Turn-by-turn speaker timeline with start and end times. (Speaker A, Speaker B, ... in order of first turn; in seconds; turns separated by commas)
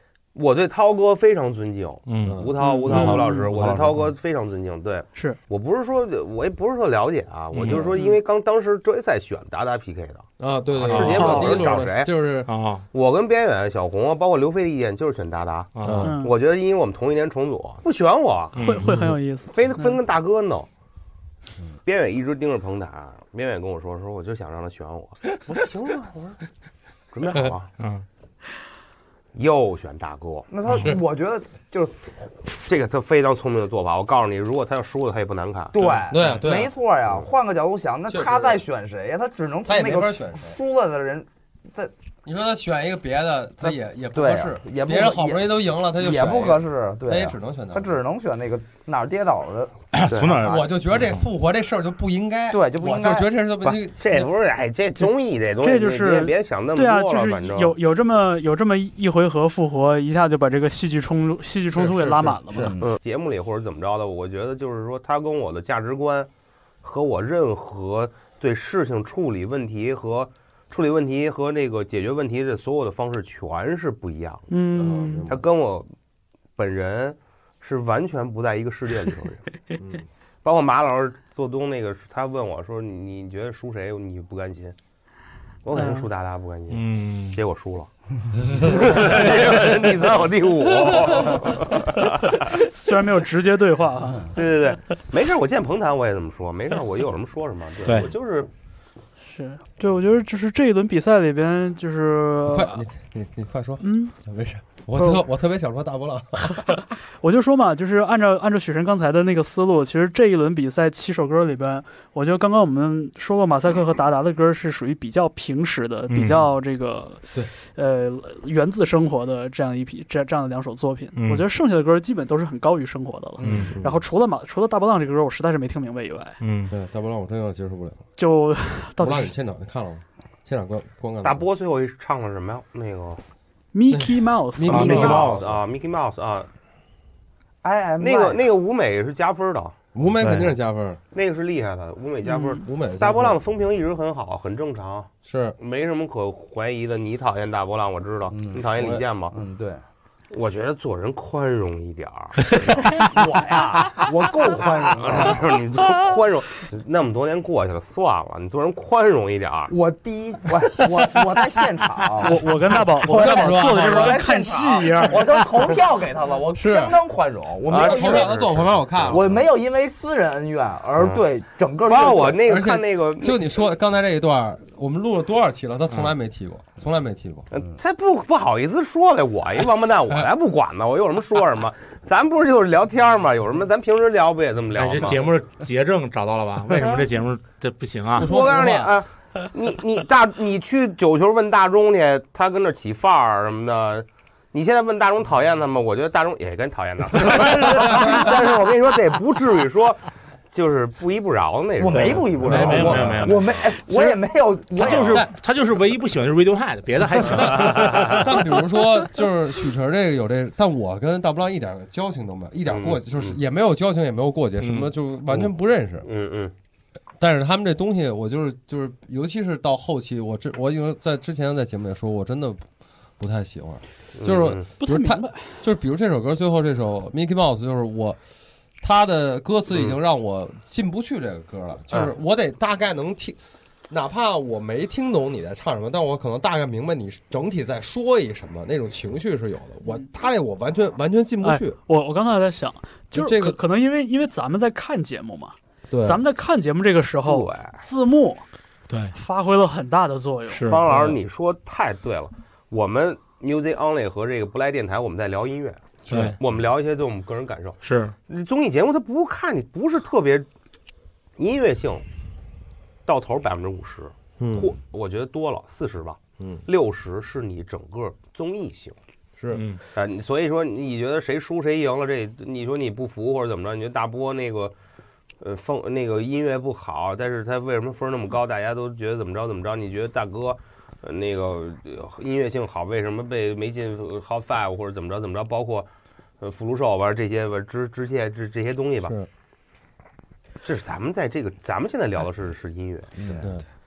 Speaker A: 0.3-12.1, Speaker B: 2.1-4.0, Speaker C: 2.2-2.5, Speaker D: 2.6-3.4, Speaker B: 7.5-7.9, Speaker C: 7.7-7.9, Speaker C: 10.4-12.5, Speaker B: 10.9-11.4, Speaker D: 11.1-11.6, Speaker B: 12.4-12.8, Speaker A: 12.9-18.5, Speaker B: 15.7-16.1, Speaker C: 15.8-16.1, Speaker D: 16.0-16.3, Speaker B: 18.5-19.1, Speaker D: 18.6-19.9, Speaker A: 19.5-20.7, Speaker A: 21.8-26.4, Speaker A: 27.1-27.7, Speaker B: 27.8-28.0, Speaker A: 29.3-30.5, Speaker E: 30.5-32.1, Speaker C: 30.7-31.0, Speaker A: 32.6-35.9, Speaker E: 35.7-41.9, Speaker C: 36.1-36.7, Speaker C: 38.1-38.6, Speaker C: 39.6-40.5, Speaker C: 42.2-47.9, Speaker E: 43.6-49.8, Speaker B: 49.9-50.6, Speaker A: 50.1-50.4, Speaker C: 50.4-54.3, Speaker E: 52.5-53.3, Speaker A: 53.6-57.7, Speaker D: 55.6-62.7, Speaker C: 61.8-62.7, Speaker E: 62.5-62.9, Speaker A: 62.8-66.3, Speaker A: 66.8-74.5, Speaker D: 74.5-75.3, Speaker C: 74.7-75.4, Speaker A: 75.3-75.9, Speaker A: 76.5-79.4, Speaker C: 79.8-80.0, Speaker A: 80.4-84.7, Speaker A: 85.6-92.6, Speaker D: 85.7-86.0, Speaker B: 86.7-87.4, Speaker D: 92.2-94.4, Speaker A: 94.3-98.5, Speaker B: 97.8-98.1, Speaker D: 99.3-102.8, Speaker C: 102.5-106.8, Speaker D: 103.8-104.1, Speaker D: 106.4-126.4, Speaker B: 116.1-116.5, Speaker B: 121.1-121.5, Speaker E: 123.4-123.8, Speaker B: 123.4-123.7, Speaker C: 123.7-124.0, Speaker B: 126.4-126.7, Speaker C: 126.7-128.0, Speaker D: 128.2-129.3, Speaker C: 129.0-131.4, Speaker A: 131.2-133.2, Speaker D: 133.7-135.0, Speaker C: 133.9-135.4, Speaker B: 134.7-135.5, Speaker A: 134.7-136.5, Speaker E: 137.6-138.4, Speaker A: 138.0-139.8, Speaker C: 139.9-141.0, Speaker A: 141.1-149.3, Speaker D: 142.3-142.6, Speaker C: 142.6-143.4, Speaker C: 145.2-145.6, Speaker E: 148.3-148.6, Speaker C: 148.8-149.0, Speaker E: 149.3-149.8, Speaker A: 150.3-159.7, Speaker E: 153.9-155.6, Speaker E: 159.7-168.3, Speaker D: 162.2-165.4, Speaker C: 163.0-164.2, Speaker C: 166.5-167.0, Speaker A: 167.7-169.4, Speaker C: 167.7-169.2, Speaker E: 169.1-172.4, Speaker A: 171.8-173.4, Speaker C: 172.4-177.5, Speaker A: 177.5-185.3, Speaker B: 184.7-188.3, Speaker C: 188.2-188.9, Speaker A: 188.2-203.2, Speaker E: 201.8-205.3, Speaker B: 201.9-203.7, Speaker D: 203.9-204.2, Speaker B: 204.8-208.6, Speaker C: 205.0-205.3, Speaker C: 207.2-216.1, Speaker A: 212.7-213.3, Speaker B: 214.6-214.9, Speaker A: 216.0-216.5, Speaker C: 217.2-222.7, Speaker C: 223.2-228.2, Speaker A: 224.2-224.7, Speaker D: 224.8-225.5, Speaker C: 228.8-233.4, Speaker C: 233.9-241.8, Speaker D: 241.4-248.4, Speaker C: 243.1-243.6, Speaker C: 245.9-246.2, Speaker A: 247.2-247.8, Speaker B: 248.9-249.1, Speaker D: 249.1-250.7, Speaker B: 250.5-251.0, Speaker A: 250.6-260.5, Speaker C: 250.9-251.1, Speaker C: 256.1-256.3, Speaker B: 256.1-256.4, Speaker B: 257.8-258.1, Speaker A: 261.4-262.0, Speaker A: 263.1-268.9, Speaker C: 264.4-264.7, Speaker C: 269.4-269.6, Speaker B: 269.5-269.8, Speaker A: 269.9-274.7, Speaker A: 275.4-285.9, Speaker A: 286.4-289.1, Speaker A: 290.6-293.5, Speaker E: 293.2-293.5, Speaker C: 293.4-293.6